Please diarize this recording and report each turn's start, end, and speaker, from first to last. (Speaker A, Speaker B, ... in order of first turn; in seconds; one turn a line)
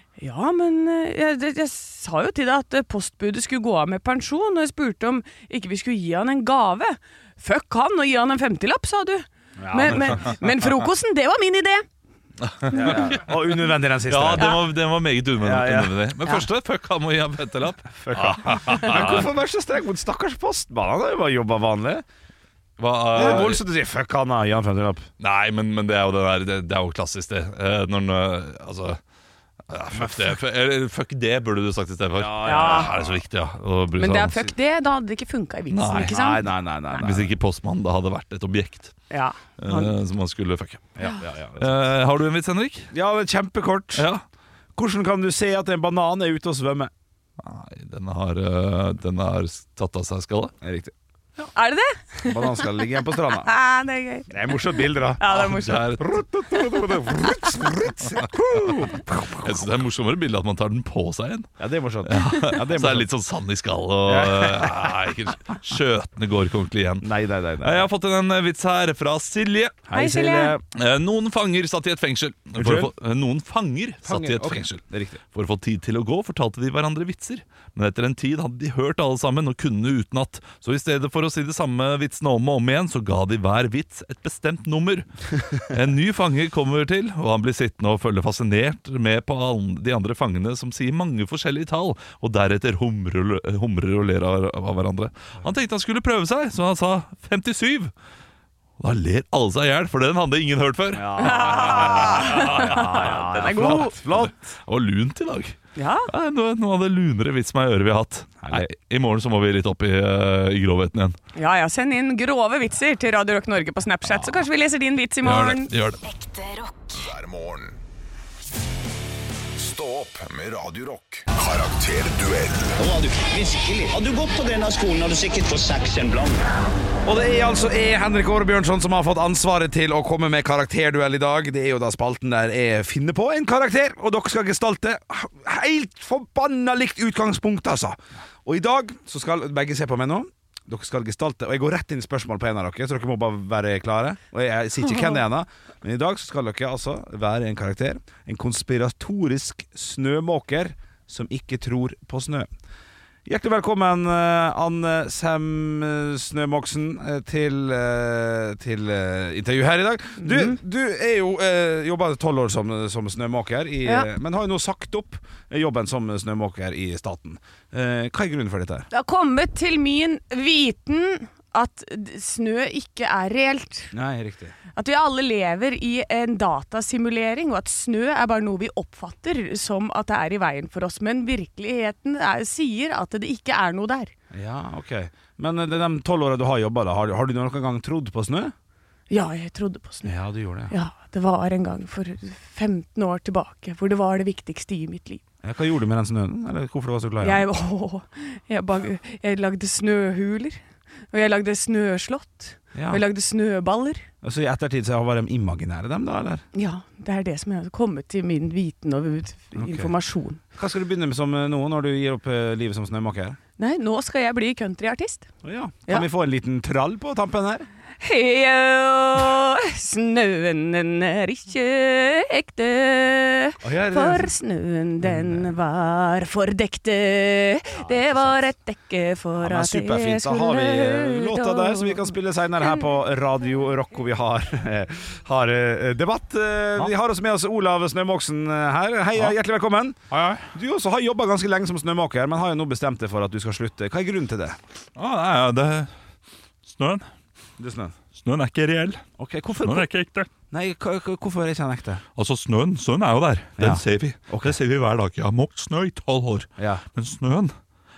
Speaker A: 0.2-11.8
Speaker B: 9.6-10.4
Speaker C: 12.4-13.3
Speaker B: 12.7-14.6
Speaker C: 14.1-19.3
Speaker A: 14.4-14.6
Speaker B: 15.4-16.0
Speaker B: 18.0-22.1
Speaker C: 22.8-23.6
Speaker B: 23.1-25.1
Speaker C: 25.2-29.0
Speaker C: 29.7-34.5
Speaker B: 32.2-33.2
Speaker A: 32.4-33.0
Speaker A: 34.0-37.1
Speaker C: 35.7-36.1
Speaker B: 36.0-37.3
Speaker C: 37.0-39.0
Speaker A: 39.1-39.9
Speaker C: 39.6-41.0
Speaker B: 41.0-41.8
Speaker C: 41.6-42.9
Speaker B: 42.9-44.1
Speaker C: 44.0-44.2
Speaker B: 44.8-46.9
Speaker C: 47.4-50.5
Speaker B: 50.6-50.9
Speaker A: 51.5-54.6
Speaker B: 52.3-53.5
Speaker B: 54.3-55.3
Speaker A: 55.2-56.0
Speaker C: 55.3-56.0
Speaker B: 56.0-59.7
Speaker A: 56.7-57.3
Speaker C: 59.4-61.5
Speaker B: 61.6-63.1
Speaker C: 62.0-67.1
Speaker B: 64.0-65.0
Speaker B: 67.0-67.9
Speaker C: 67.6-69.8
Speaker B: 69.9-70.6
Speaker A: 69.9-70.6
Speaker C: 70.7-97.9
Speaker B: 72.5-72.9
Speaker B: 74.0-75.2
Speaker C: 98.8-102.9
Speaker B: 100.9-104.5
Speaker A: 101.2-104.0
Speaker C: 103.4-105.6
Speaker A: 105.8-106.1
Speaker C: 106.1-111.1
Speaker B: 108.4-108.7
Speaker A: 111.4-115.7
Speaker C: 115.2-116.0
Speaker D: 116.1-117.8
Speaker D: 119.5-122.8
Speaker E: 122.8-126.4
Speaker B: 127.0-152.5
Speaker B: 153.3-168.9
Speaker A: 160.2-160.6
Speaker A: 168.9-173.9
Speaker B: 173.9-174.6
Speaker A: 174.8-184.1
Speaker B: 184.3-188.5
Speaker A: 189.1-190.1
Speaker B: 190.0-190.8
Speaker A: 190.7-195.2
Speaker B: 195.4-197.4
Speaker A: 197.2-204.1
Speaker B: 202.8-203.0
Speaker B: 204.2-206.4
Speaker A: 206.5-210.4
Speaker B: 209.6-209.9
Speaker B: 210.6-213.4
Speaker A: 213.6-215.3
Speaker B: 215.4-217.7
Speaker A: 218.0-232.8
Speaker B: 223.6-224.3
Speaker B: 225.0-225.5
Speaker B: 227.7-228.5
Speaker B: 229.4-244.6
Speaker C: 240.1-240.5
Speaker C: 245.0-245.9
Speaker C: 246.6-247.1
Speaker B: 247.6-248.0
Speaker C: 248.2-249.0
Speaker B: 249.2-249.9
Speaker C: 249.6-250.3
Speaker B: 250.5-252.0
Speaker C: 252.2-257.5
Speaker B: 253.6-254.6
Speaker B: 256.6-256.9